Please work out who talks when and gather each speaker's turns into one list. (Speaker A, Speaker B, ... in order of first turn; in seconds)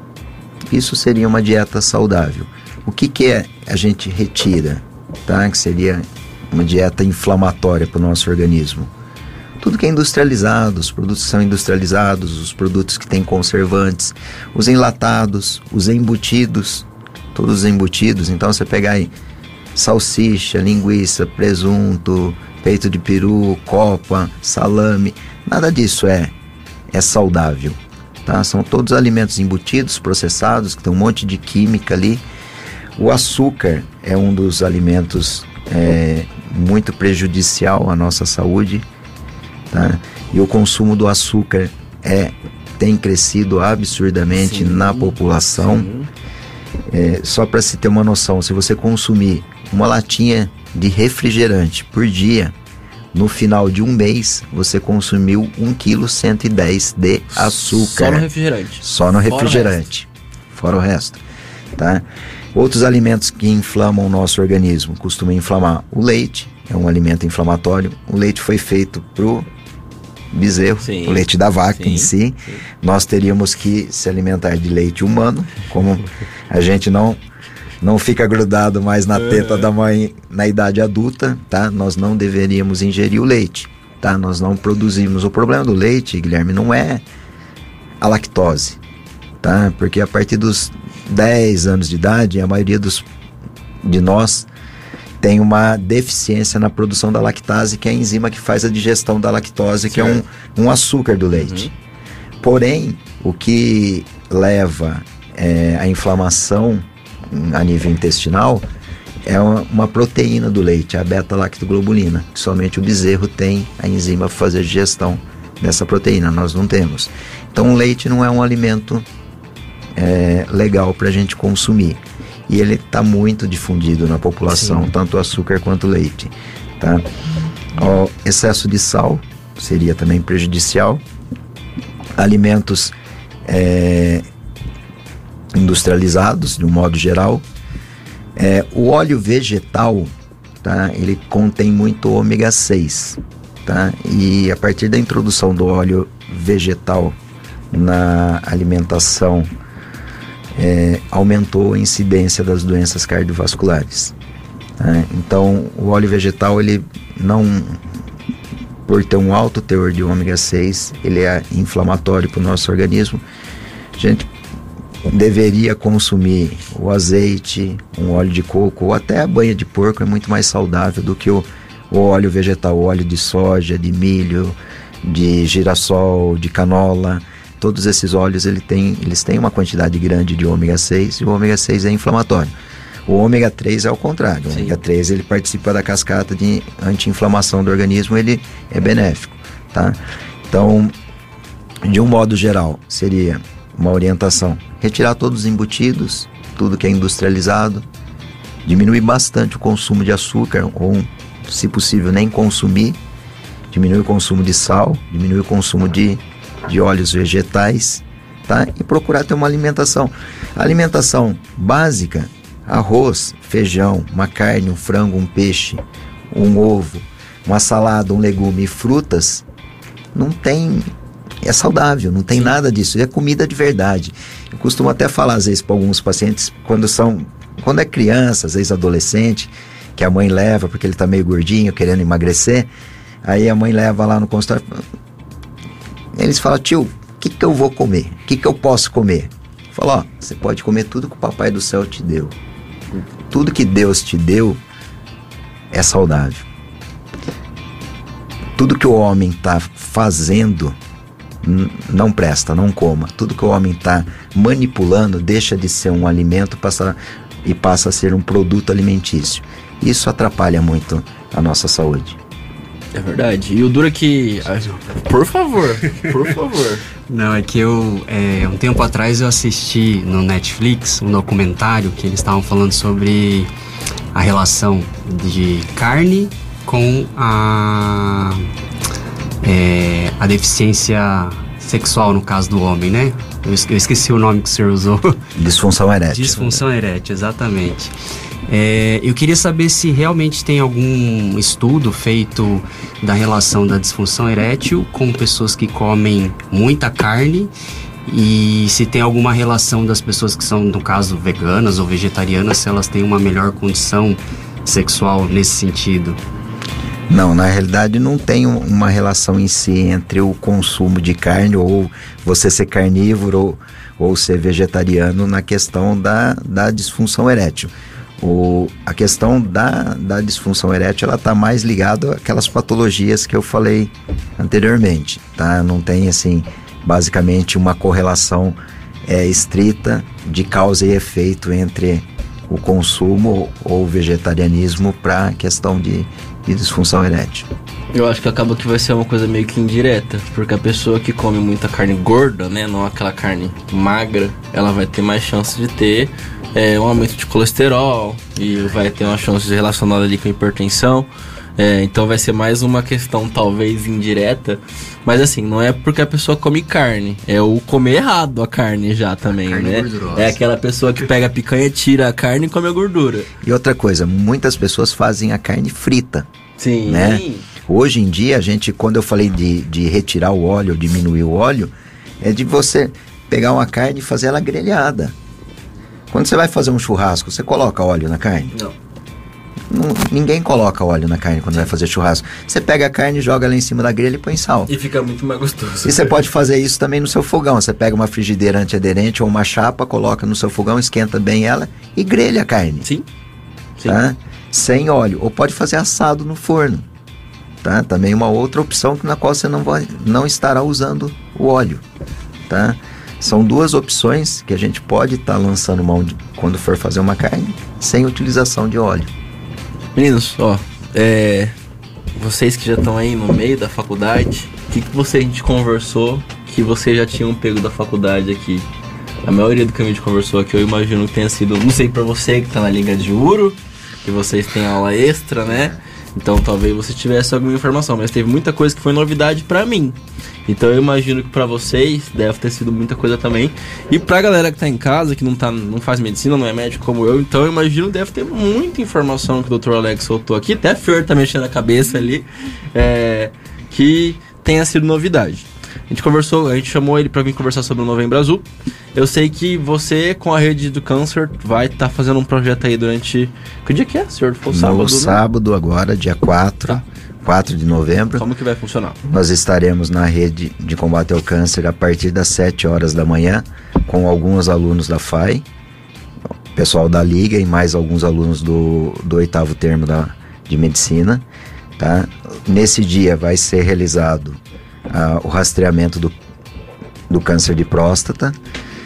Speaker A: 0.7-8.9, 9.6-19.1, 19.7-26.3, 26.9-32.2, 33.0-38.8, 39.7-45.9, 46.9-52.5, 53.1-58.2, 58.8-61.2, 61.8-69.5, 70.3-77.2, 77.8-87.0, 88.0-88.8, 89.4-93.0, 93.8-94.5, 95.2-101.7, 102.4-108.6, 109.2-119.0, 120.0-127.0, 127.8-131.0, 132.2-132.9, 133.4-134.2, 135.5-137.4, 138.3-147.1, 147.7-149.5, 150.6-154.1, 154.8-157.8, 158.8-163.2, 163.9-164.3, 165.0-182.5, 183.1-190.0, 190.5-190.9, 191.8-197.8, 198.6-203.0, 203.7-219.4, 220.1-220.9, 221.4-232.7, 233.2-234.8, 236.1-242.3, 243.3-244.6, 245.7-246.4, 248.6-250.8, 251.4-262.2, 285.4-286.6, 307.1-337.5, 363.4-366.3, 366.9-375.1, 376.1-378.5, 379.7-384.7, 385.8-392.9, 393.9-396.9, 397.6-401.8, 402.5-409.1, 454.5-458.2, 459.0-465.4, 466.5-471.2, 471.8-476.1, 477.1-478.3
Speaker B: 44.3-46.1, 57.3-59.8, 70.8-72.6, 79.1-79.7, 99.9-100.2, 101.3-101.7, 262.9-266.8, 337.9-363.3, 366.6-367.5, 384.7-386.1, 409.9-411.5, 412.1-418.6, 419.2-455.2, 458.1-459.0
Speaker C: 267.1-273.5, 274.1-278.5, 279.4-285.2, 286.1-287.9, 288.5-297.5, 298.1-306.2, 359.4-360.4